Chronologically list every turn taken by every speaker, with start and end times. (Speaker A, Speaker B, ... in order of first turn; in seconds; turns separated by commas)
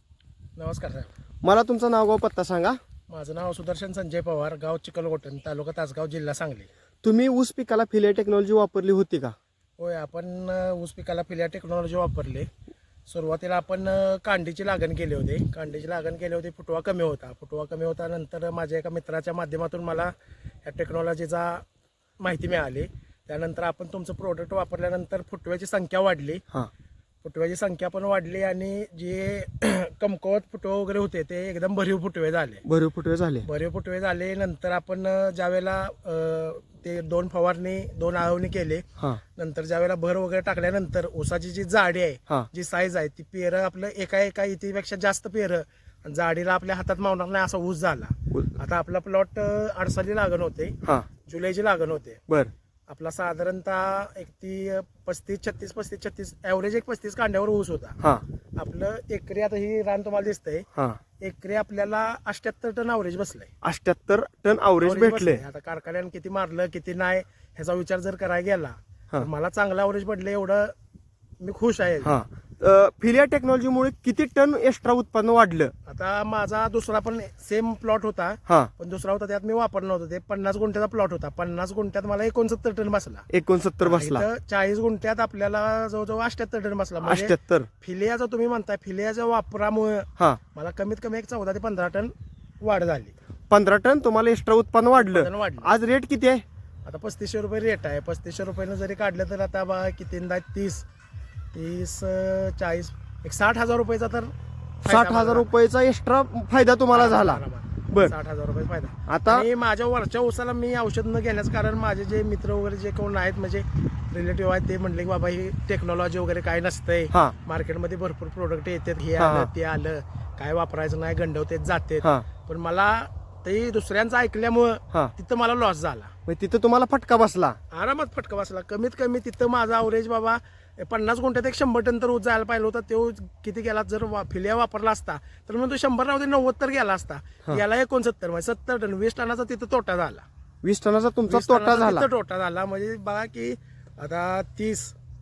Speaker A: 0.6-1.1, Speaker B: 1.4-2.8, Speaker A: 3.1-6.7, Speaker B: 7.0-9.3, Speaker A: 9.8-12.5, Speaker A: 13.1-20.1, Speaker A: 20.6-21.6, Speaker A: 22.2-26.4, Speaker A: 27.2-32.6, Speaker B: 32.6-33.5, Speaker A: 33.4-52.2, Speaker A: 52.9-58.0, Speaker A: 58.6-60.7, Speaker A: 61.2-63.5, Speaker B: 63.6-65.4, Speaker A: 64.8-70.7, Speaker A: 71.4-72.2, Speaker B: 72.0-75.7, Speaker A: 75.9-83.3, Speaker B: 83.3-84.3, Speaker A: 83.8-93.1, Speaker B: 87.0-87.7, Speaker B: 93.5-96.4, Speaker A: 94.9-95.7, Speaker A: 96.8-100.8, Speaker A: 101.5-105.5, Speaker B: 104.9-108.1, Speaker A: 106.9-126.1, Speaker B: 109.1-109.5, Speaker B: 119.2-119.5, Speaker B: 126.3-127.6, Speaker A: 127.7-140.2, Speaker B: 140.6-142.1, Speaker A: 141.3-144.9